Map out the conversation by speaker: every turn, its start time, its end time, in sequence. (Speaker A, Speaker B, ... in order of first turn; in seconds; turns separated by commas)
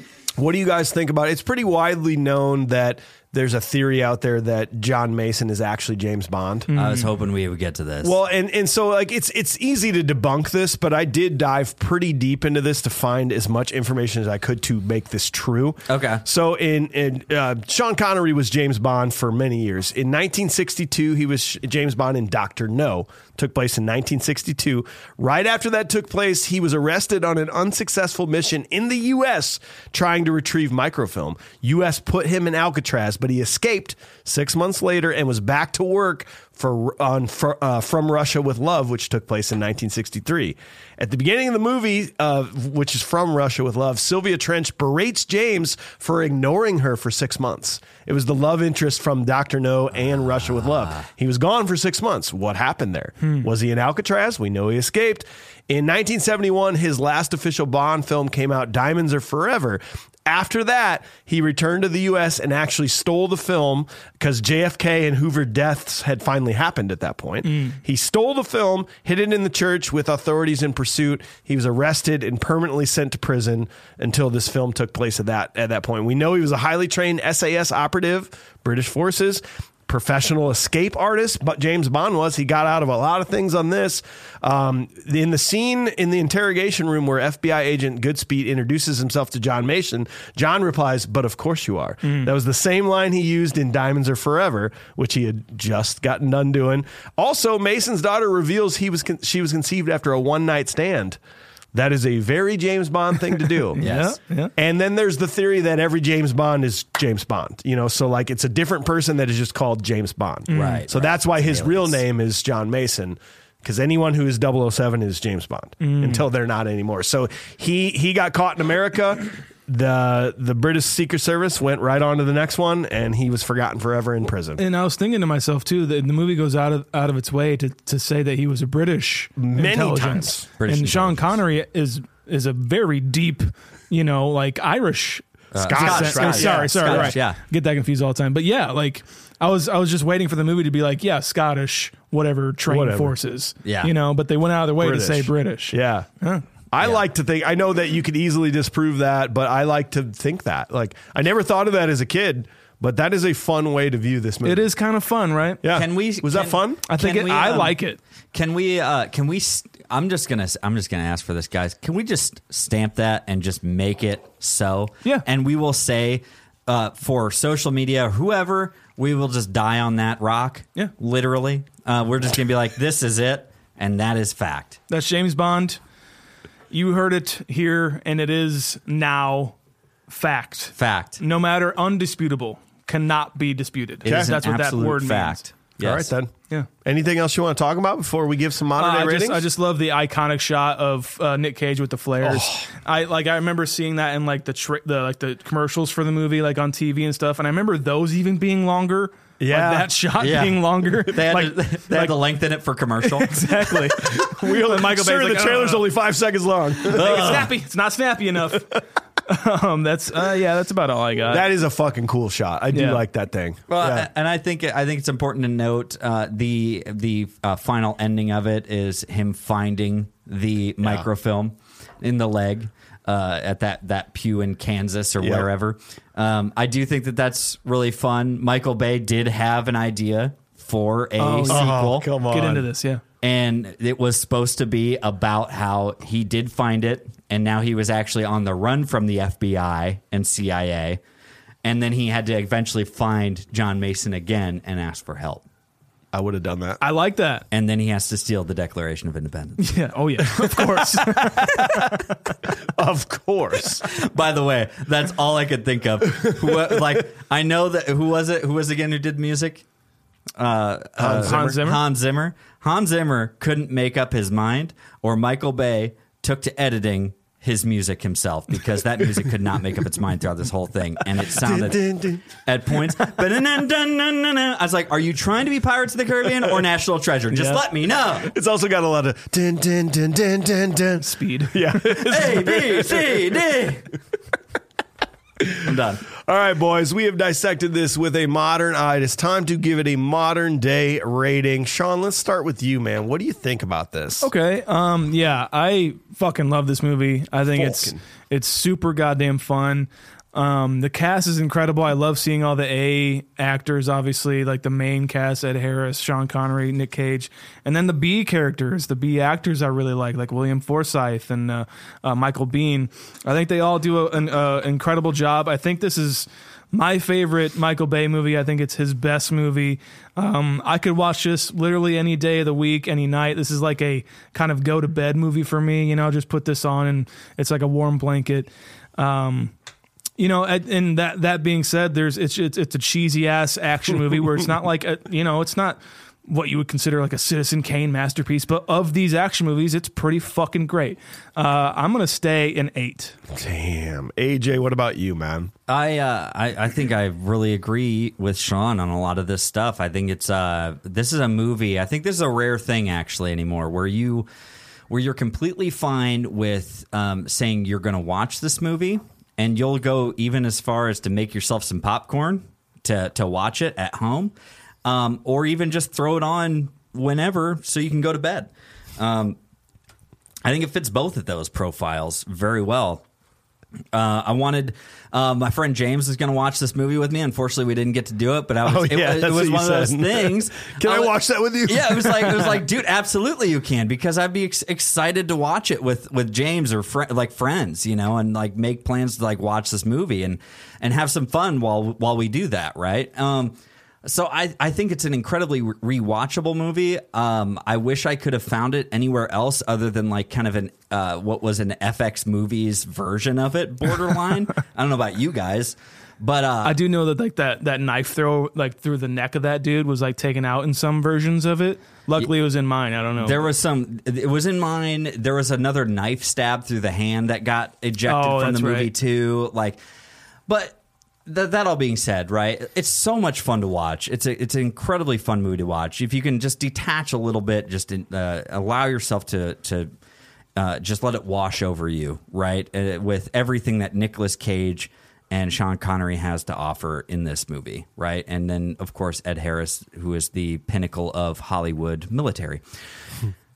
Speaker A: 0.4-6.7, Speaker B: 6.7-7.1, Speaker C: 6.7-8.2, Speaker A: 8.0-101.2, Speaker C: 15.9-16.2, Speaker C: 50.5-51.0, Speaker B: 53.2-53.5, Speaker B: 67.4-67.8, Speaker B: 92.0-92.3, Speaker A: 101.7-103.8, Speaker B: 103.8-104.5, Speaker C: 103.8-104.2, Speaker A: 104.6-124.6, Speaker B: 110.5-110.8, Speaker C: 110.5-112.0, Speaker B: 115.8-116.2, Speaker B: 124.6-146.4, Speaker A: 129.4-130.5, Speaker C: 130.6-131.4, Speaker C: 135.5-137.4, Speaker A: 135.6-137.2, Speaker A: 142.7-143.2, Speaker C: 143.6-143.9, Speaker A: 144.8-146.1, Speaker A: 146.7-154.7, Speaker C: 146.8-147.0, Speaker B: 154.4-155.6, Speaker A: 155.6-156.8, Speaker C: 155.7-157.8, Speaker B: 156.9-158.0, Speaker C: 158.3-174.8, Speaker B: 174.9-175.8, Speaker B: 176.7-179.5, Speaker B: 180.1-185.4, Speaker C: 180.8-181.2, Speaker C: 184.0-186.1, Speaker A: 184.0-184.3, Speaker A: 185.8-186.3, Speaker A: 186.8-189.4, Speaker B: 188.8-202.2, Speaker A: 192.2-192.7, Speaker A: 199.4-199.9, Speaker C: 200.2-203.7, Speaker B: 203.0-205.8, Speaker A: 204.1-207.4, Speaker B: 206.9-211.5, Speaker C: 206.9-207.5, Speaker A: 211.3-214.1, Speaker B: 212.7-213.0, Speaker C: 213.7-232.1, Speaker A: 225.2-225.5, Speaker B: 231.2-231.7, Speaker A: 231.5-232.7, Speaker B: 232.3-233.0, Speaker C: 233.2-241.0, Speaker C: 241.6-245.4, Speaker A: 246.1-246.8, Speaker B: 246.8-247.4, Speaker C: 247.5-249.8, Speaker B: 249.6-252.0, Speaker A: 252.7-253.8, Speaker C: 253.8-259.6, Speaker C: 260.4-278.3, Speaker A: 261.0-261.5, Speaker B: 261.1-261.8, Speaker A: 271.4-272.2, Speaker B: 277.3-277.6, Speaker A: 278.3-283.4, Speaker B: 281.0-281.6, Speaker C: 282.0-283.9, Speaker C: 285.5-286.1, Speaker A: 286.2-294.3, Speaker B: 294.2-329.5, Speaker A: 297.5-298.0, Speaker B: 330.2-343.1, Speaker A: 343.3-345.5, Speaker C: 345.7-354.3, Speaker C: 354.9-364.3, Speaker C: 364.8-369.4, Speaker C: 370.4-373.0, Speaker C: 373.9-406.8, Speaker A: 378.6-382.6, Speaker B: 406.6-413.5, Speaker C: 413.2-419.8, Speaker B: 418.1-418.9, Speaker C: 420.5-429.9, Speaker C: 430.6-442.6